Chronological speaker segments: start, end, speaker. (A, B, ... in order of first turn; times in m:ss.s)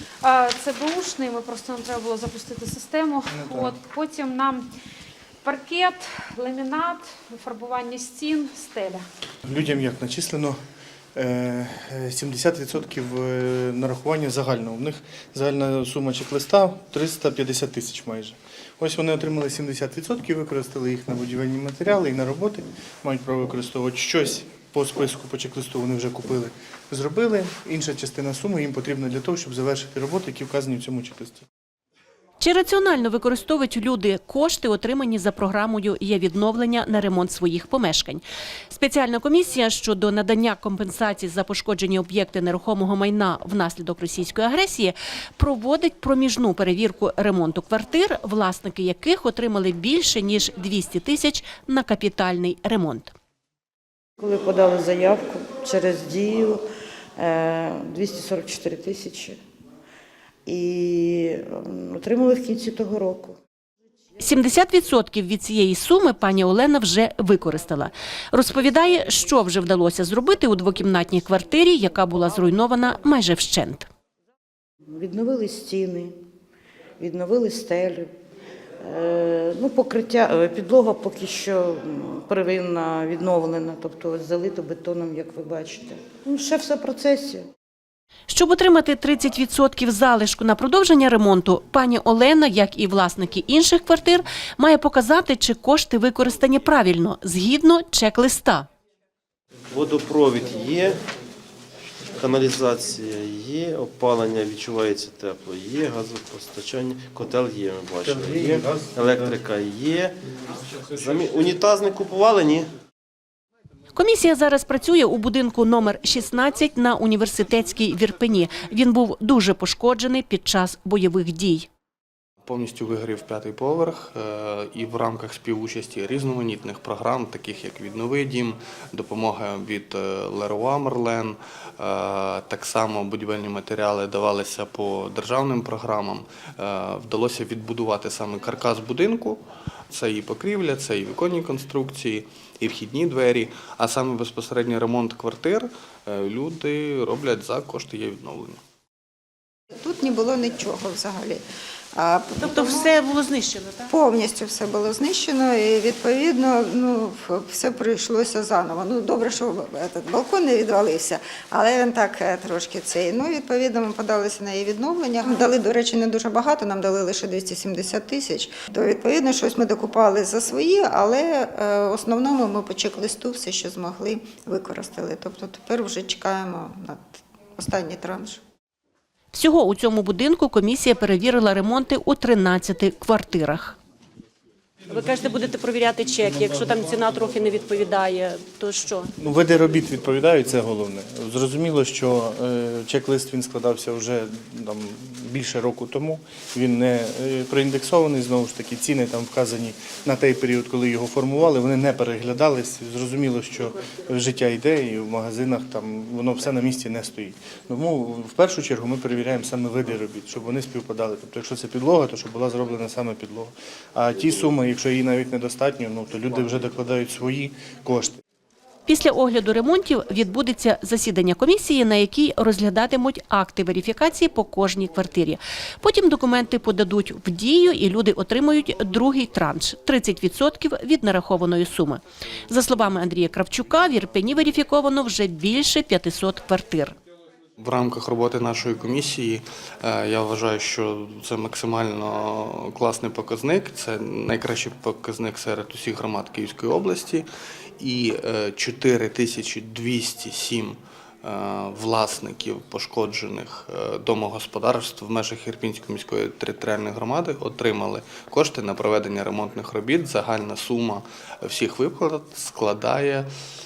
0:00.2-0:04.7 A
0:03.3-0:03.7 B
0:05.4-0:09.0 A
0:09.4-0:10.6 B
0:11.1-0:31.5 B
0:32.4-0:53.1 C
0:54.2-0:56.6 D
0:57.2-0:59.4 D
1:00.4-1:03.4 D
1:04.2-1:13.9 C
1:14.9-1:16.1 D
1:17.0-1:18.1 D
1:18.8-1:27.5 D
1:28.3-1:38.7 C
1:39.7-1:41.0 E
1:42.1-1:50.2 E
1:50.7-1:52.7 E
1:53.9-2:01.7 C
2:02.4-2:28.6 F
2:29.7-2:31.4 G
2:32.0-2:32.9 G
2:32.4-2:33.9 C
2:33.9-2:58.4 G
2:59.3-3:03.8 C
3:04.9-3:09.1 C
3:09.2-3:38.2 B
3:38.8-3:56.9 C
3:57.6-4:07.3 F
4:07.8-4:23.3 F